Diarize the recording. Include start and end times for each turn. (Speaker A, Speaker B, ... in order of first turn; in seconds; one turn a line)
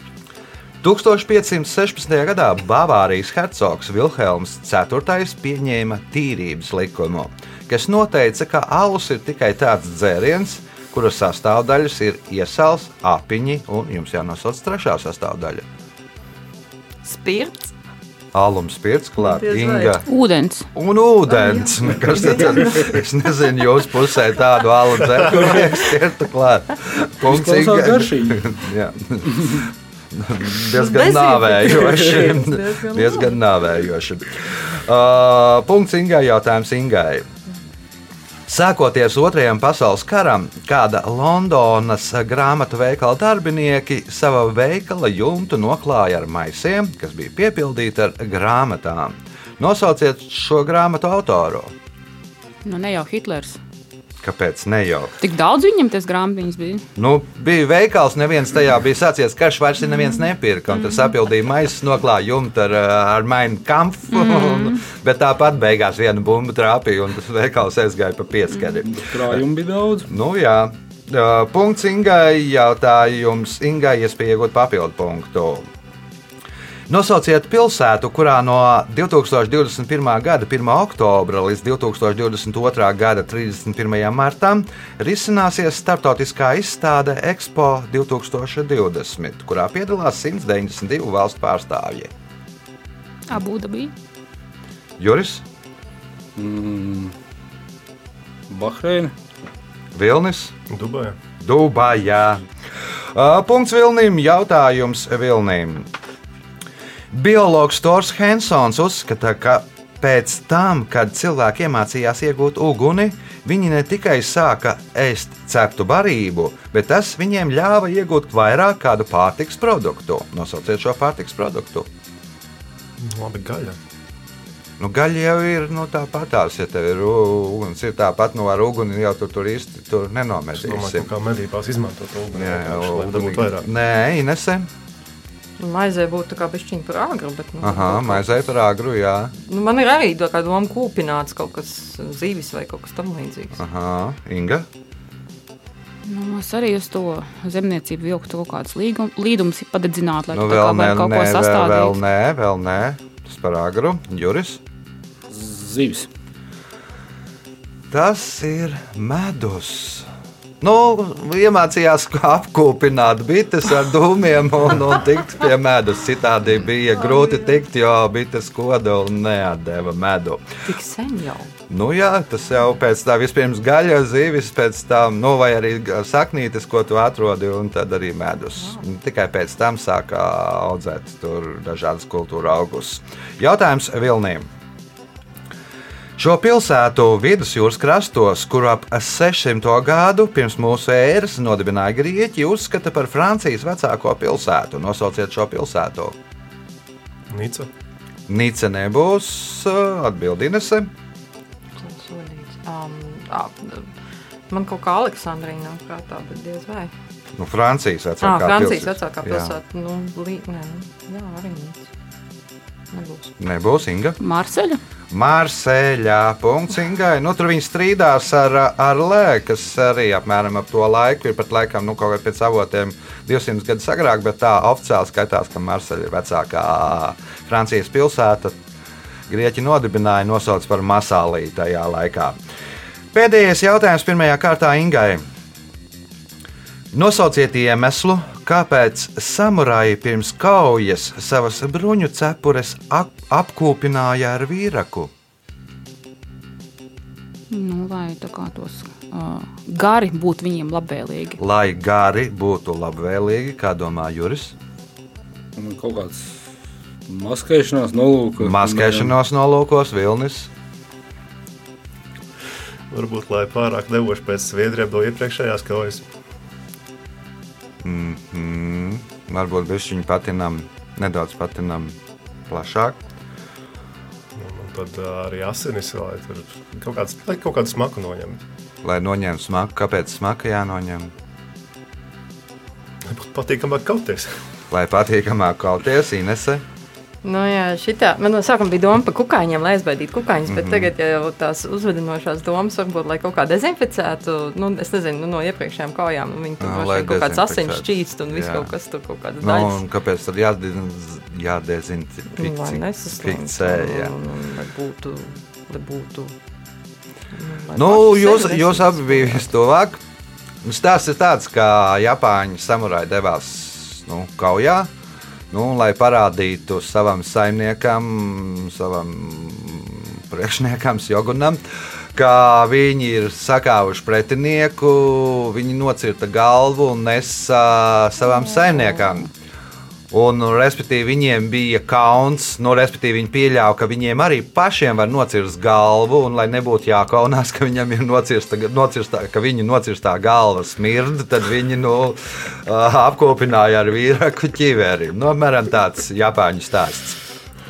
Speaker A: 0.8-15.7
Speaker B: 17.0-17.7
Speaker A: 18.3-20.0
Speaker B: 19.2-20.0
Speaker C: 20.1-20.7
Speaker A: 20.8-37.3
Speaker B: 21.3-22.9
Speaker D: 27.2-28.6
Speaker B: 30.7-33.4
Speaker A: 38.5-51.7
Speaker C: 52.6-53.6
Speaker A: 54.2-55.2
Speaker C: 55.2-56.9
Speaker A: 57.0-69.4
Speaker C: 64.1-64.8
Speaker D: 68.9-70.1
Speaker A: 70.1-75.7
Speaker A: 76.9-92.1
Speaker C: 93.3-93.9
Speaker A: 95.0-95.4
Speaker D: 96.4-97.1
Speaker D: 98.5-99.1
Speaker A: 99.9-100.5
Speaker E: 100.7-101.2
Speaker A: 101.4-102.4
Speaker A: 103.1-105.9
Speaker A: 107.1-121.9
Speaker E: 123.0-123.8
Speaker A: 124.8-131.1
Speaker E: 130.6-133.7
Speaker A: 132.3-134.7
Speaker B: 135.6-138.3
Speaker A: 137.6-139.3
Speaker B: 139.4-143.6
Speaker A: 143.6-144.7
Speaker C: 146.1-152.0
Speaker A: 150.3-154.6
Speaker D: 155.3-156.1
Speaker A: 157.9-160.1
Speaker A: 160.6-170.4
Speaker B: 170.6-171.5
Speaker A: 171.7-184.5
Speaker A: 186.2-196.2
Speaker E: 197.3-197.7
Speaker A: 198.3-200.9
Speaker B: 201.8-203.9
Speaker B: 204.5-206.9
Speaker A: 207.4-209.6
Speaker B: 208.2-211.9
Speaker B: 212.9-213.3
Speaker A: 213.4-214.2
Speaker C: 214.2-214.8
Speaker A: 215.1-228.6
Speaker A: 229.3-232.4
Speaker A: 233.1-235.2
Speaker A: 236.9-245.1
Speaker C: 247.5-251.4
Speaker A: 251.4-254.6
Speaker D: 255.6-256.3
Speaker D: 257.1-259.1
Speaker A: 258.4-260.5
Speaker E: 262.9-266.1
Speaker A: 267.8-272.0
Speaker A: 272.5-273.0
Speaker E: 274.4-278.4
Speaker A: 278.8-281.1
Speaker E: 283.1-284.4
Speaker A: 284.7-286.6
Speaker B: 287.2-299.8
Speaker A: 290.5-290.9
Speaker A: 296.6-298.7
Speaker A: 299.4-304.1
Speaker B: 302.3-306.4
Speaker B: 307.3-309.5
Speaker A: 307.8-310.0
Speaker A: 310.6-314.9
Speaker A: 315.5-321.6
Speaker A: 322.1-329.3
Speaker A: 330.1-347.2